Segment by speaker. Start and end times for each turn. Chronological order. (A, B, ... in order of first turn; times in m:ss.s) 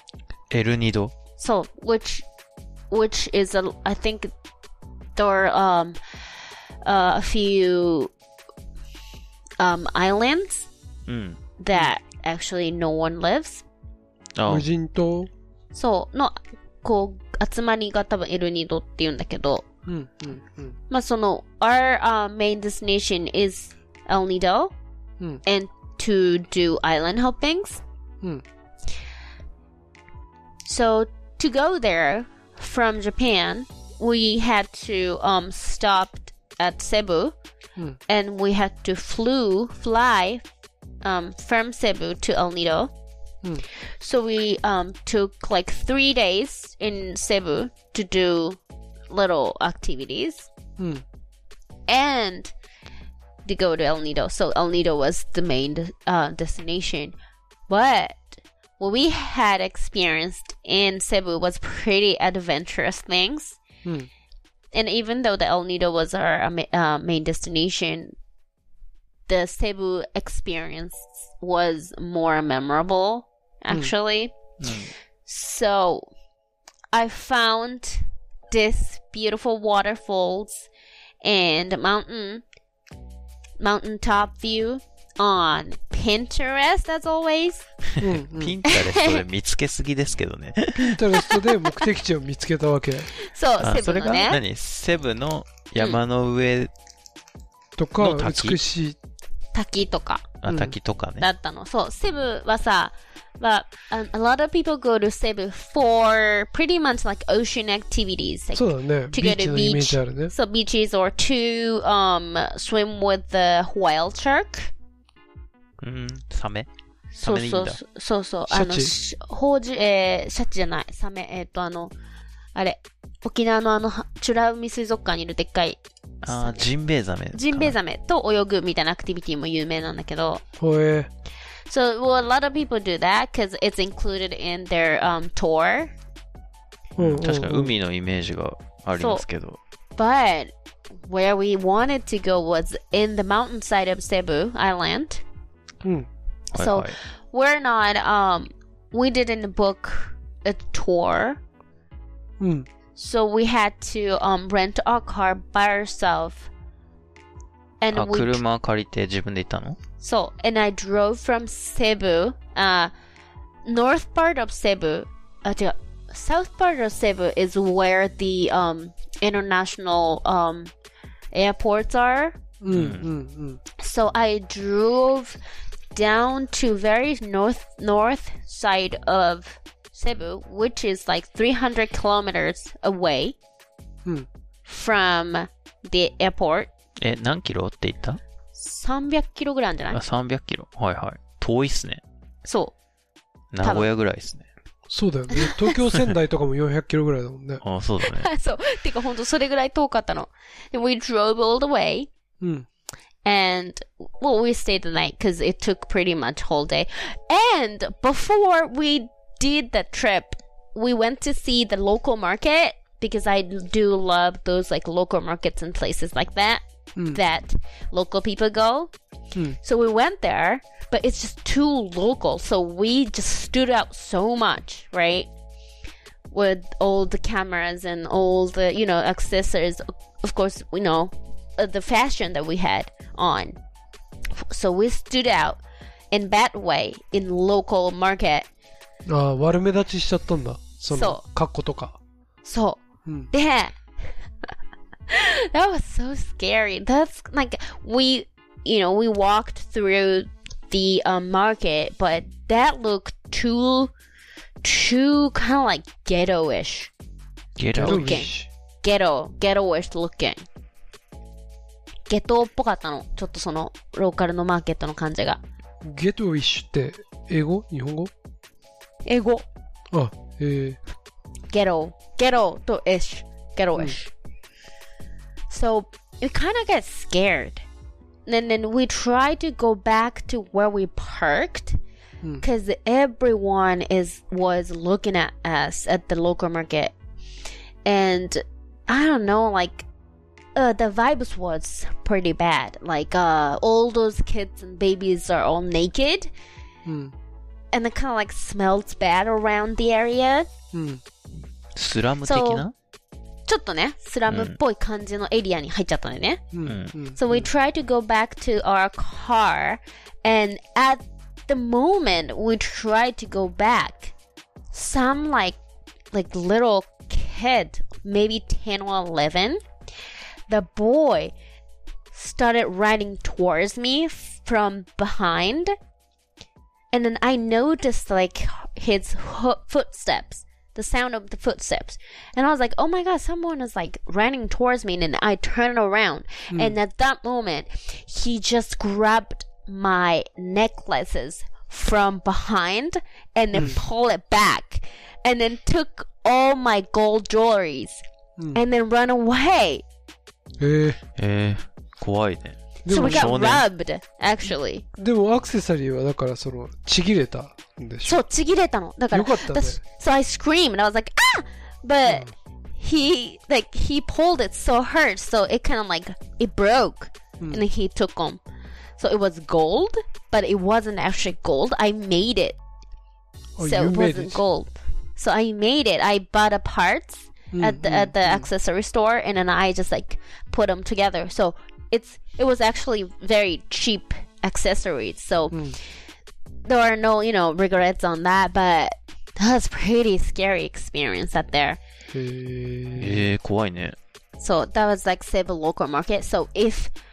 0:00.5-0:01.1 A
0:01.4-0:02.2 B
0:02.9-0:04.3 B
0:05.2-0:06.0 B
0:06.8-0:08.1 B
0:09.6-0:10.7 B
0:11.1-0:11.4 A
0:11.6-0:13.6 B
0:14.4-0:14.6 A
0:14.5-0:15.3 C
0:15.7-0:19.6 B
0:19.8-0:20.8 C
0:20.9-0:24.7 B
0:25.4-0:27.8 B
0:30.6-0:37.3 B
0:38.1-0:40.4 B
0:41.0-0:42.9 B
0:44.0-0:50.5 B
0:50.8-0:51.0 C
0:51.9-0:52.5 B
0:53.4-0:57.1 B
0:57.7-1:03.6 B
1:04.7-1:08.2 B
1:09.3-1:14.4 B
1:14.6-1:14.9 A
1:15.2-1:16.1 B
1:16.9-1:20.7 B
1:21.2-1:22.4 B
1:23.6-1:27.6 B
1:28.0-1:31.4 A
1:28.0-1:28.6 C
1:28.6-1:29.2 B
1:30.7-1:33.1 C
1:33.1-1:34.4 B
1:33.6-1:36.7 A
1:37.8-1:39.0 C
1:38.0-1:38.6 A
1:39.5-1:40.3 B
1:40.4-1:41.2 A
1:40.4-1:40.7 C
1:41.2-1:54.7 B
1:48.5-1:50.3 C
1:55.8-1:56.7 A
1:57.1-2:01.9 B
1:57.2-1:57.8 A
1:58.5-1:58.9 C
2:02.5-2:06.6 B
2:06.2-2:07.7 A
2:07.3-2:10.4 B
2:10.6-2:11.1 C
2:11.7-2:15.9 B
2:17.0-2:17.7 C
2:17.0-2:19.6 A
2:19.0-2:19.2 B
2:20.0-2:20.5 B
2:21.0-2:25.2 B
2:25.8-2:26.1 C
2:26.5-2:27.0 A
2:26.5-2:31.4 B
2:32.4-2:32.7 C
2:33.0-2:36.5 B
2:37.8-2:38.4 B
2:37.9-2:39.8 A
2:40.0-2:42.9 B
2:43.6-2:50.7 B
2:51.3-2:52.4 B
2:52.6-2:53.6 C
2:52.7-2:53.1 A
2:53.8-2:55.4 B
2:55.9-3:03.4 B
3:04.6-3:06.7 B
3:07.0-3:08.2 A
3:08.6-3:10.0 B
3:09.9-3:12.0 A
3:12.4-3:12.7 B
3:13.5-3:14.4 A
3:13.6-3:13.9 B
3:14.9-3:17.6 C
3:15.3-3:15.7 B
3:17.6-3:18.3 A
3:18.0-3:22.1 B
3:22.4-3:22.6 C
3:23.2-3:38.9 B
3:39.6-3:45.3 B
3:46.3-3:53.6 B
3:54.3-3:58.5 B
3:59.1-4:02.0 C
4:00.9-4:01.2 B
4:02.4-4:04.5 B
4:05.1-4:13.9 B
4:14.6-4:16.9 B
4:17.6-4:18.2 A
4:17.8-4:18.3 B
4:17.8-4:18.5 C
4:18.8-4:20.4 B
4:22.1-4:25.4 B
4:25.8-4:28.1 C
4:29.0-4:29.5 B
4:29.9-4:30.8 C
4:31.5-4:34.1 B
4:35.5-4:37.6 B
4:38.2-4:41.8 B
4:42.4-4:46.9 B
4:47.8-4:49.9 B
4:50.6-4:56.3 B
4:56.8-4:57.1 C
4:57.7-5:00.5 B
5:00.7-5:01.0 C
5:01.7-5:02.7 A
5:02.2-5:02.6 B
5:03.5-5:06.4 B
5:04.3-5:04.5 A
5:06.5-5:07.5 C
5:06.6-5:07.0 A
5:07.1-5:14.1 B
5:14.7-5:15.6 B
5:16.1-5:19.6 B
5:20.5-5:21.3 B
5:22.1-5:25.7 B
5:26.9-5:48.0 B
5:43.5-5:43.8 C
5:48.5-5:49.8 B
5:50.6-5:51.0 C
5:51.2-5:53.6 A
5:52.8-5:53.3 C
5:52.9-5:54.8 B
5:55.0-5:58.2 C
5:58.0-6:08.4 B
5:59.1-5:59.8 C
6:02.0-6:02.3 C
6:09.0-6:12.6 B
6:13.6-6:14.4 C
6:13.6-6:25.8 B
6:17.5-6:18.4 C
6:25.5-6:25.8 C
6:26.6-6:31.8 B
6:32.1-6:33.3 C
6:32.9-6:34.0 A
6:34.4-6:36.9 B